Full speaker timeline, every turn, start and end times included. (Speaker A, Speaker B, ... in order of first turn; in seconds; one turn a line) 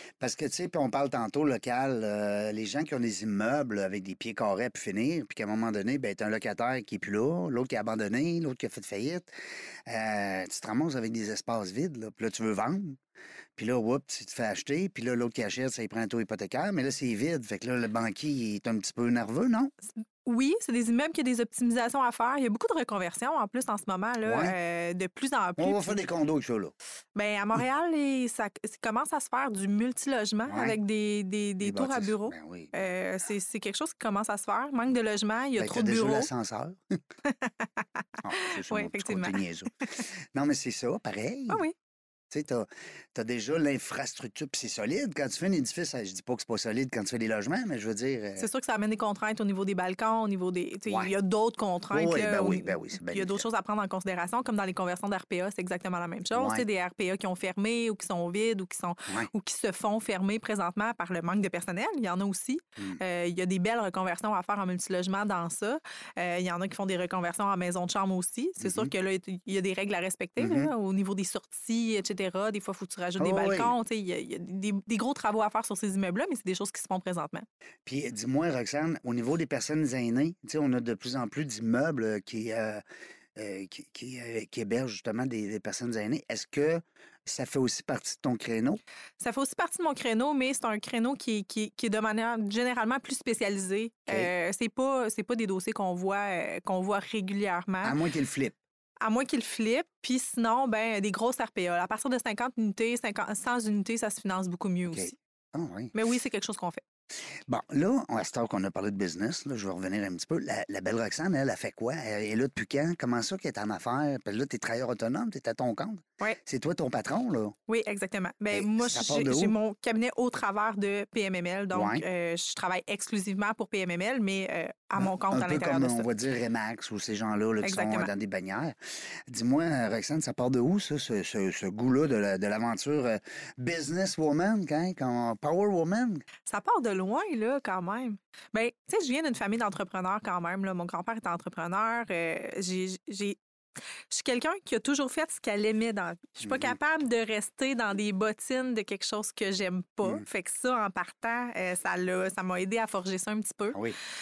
Speaker A: 0.2-9.3
Speaker A: 9.8-13.0
Speaker A: 13.6-19.7
Speaker B: 20.2-26.0
Speaker A: 24.2-24.5
Speaker A: 25.6-26.7
Speaker B: 27.1-36.3
Speaker A: 30.5-30.8
Speaker A: 31.6-32.7
Speaker A: 35.6-37.0
Speaker B: 37.2-39.4
Speaker A: 38.2-41.6
Speaker B: 41.5-41.7
Speaker A: 42.3-48.5
Speaker B: 48.4-77.5
Speaker A: 50.9-51.1
Speaker A: 51.9-53.5
Speaker A: 56.3-56.6
Speaker A: 68.6-68.9
Speaker A: 70.4-70.7
Speaker A: 73.2-73.7
Speaker A: 77.8-82.8
Speaker A: 83.3-88.8
Speaker B: 89.2-98.0
Speaker A: 97.8-98.6
Speaker B: 99.0-105.1
Speaker A: 104.9-105.9
Speaker B: 105.9-106.8
Speaker A: 107.5-117.5
Speaker B: 117.7-126.1
Speaker A: 118.5-119.5
Speaker A: 121.7-122.0
Speaker A: 125.0-128.8
Speaker B: 127.6-128.1
Speaker A: 129.3-136.2
Speaker B: 136.5-143.4
Speaker B: 144.1-153.8
Speaker A: 146.4-146.8